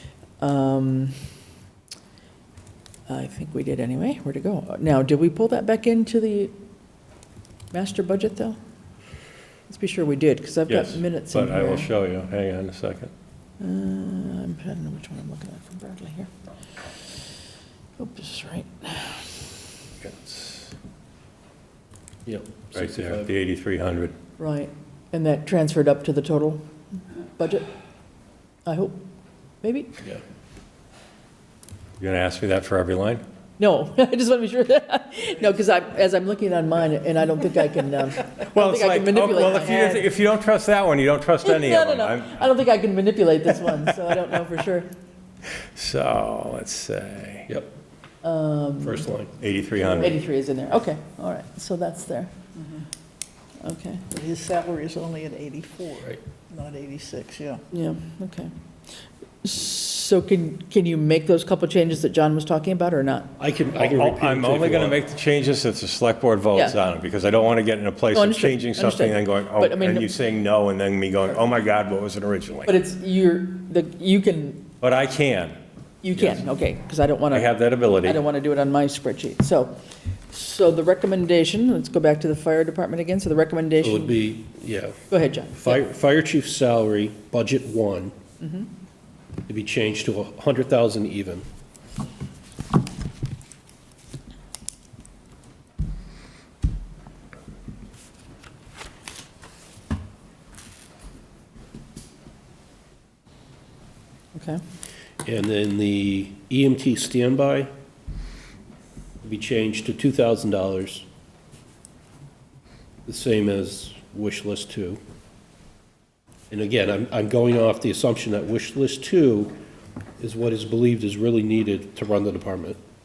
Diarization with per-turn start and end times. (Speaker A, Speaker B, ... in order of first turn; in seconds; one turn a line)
Speaker A: 0.4-1.2
Speaker A: 3.1-6.5
Speaker A: 7.7-8.6
Speaker A: 9.7-11.9
Speaker B: 10.7-13.1
Speaker A: 13.6-16.3
Speaker A: 18.0-19.4
Speaker B: 20.0-20.7
Speaker C: 22.2-23.3
Speaker B: 22.7-24.1
Speaker A: 24.4-26.6
Speaker A: 27.4-27.7
Speaker A: 28.6-29.0
Speaker A: 29.6-29.9
Speaker B: 32.0-33.2
Speaker A: 33.6-40.1
Speaker B: 38.4-42.3
Speaker A: 41.5-44.9
Speaker B: 45.8-47.5
Speaker A: 48.2-49.1
Speaker C: 48.8-49.4
Speaker B: 49.4-50.1
Speaker A: 49.8-52.3
Speaker A: 53.6-54.0
Speaker D: 54.1-57.6
Speaker A: 57.7-58.5
Speaker A: 59.4-63.3
Speaker C: 63.4-65.0
Speaker B: 63.8-72.7
Speaker A: 68.1-70.1
Speaker A: 72.7-74.7
Speaker B: 74.8-75.5
Speaker A: 76.0-79.8
Speaker B: 77.3-78.2
Speaker A: 80.3-84.3
Speaker C: 83.8-85.0
Speaker A: 85.1-85.9
Speaker C: 85.5-88.1
Speaker A: 88.4-88.7
Speaker C: 89.5-91.5
Speaker A: 104.3-104.6
Speaker C: 105.2-107.7
Speaker C: 109.2-111.1
Speaker C: 113.1-115.0
Speaker C: 116.5-119.5
Speaker C: 120.2-122.8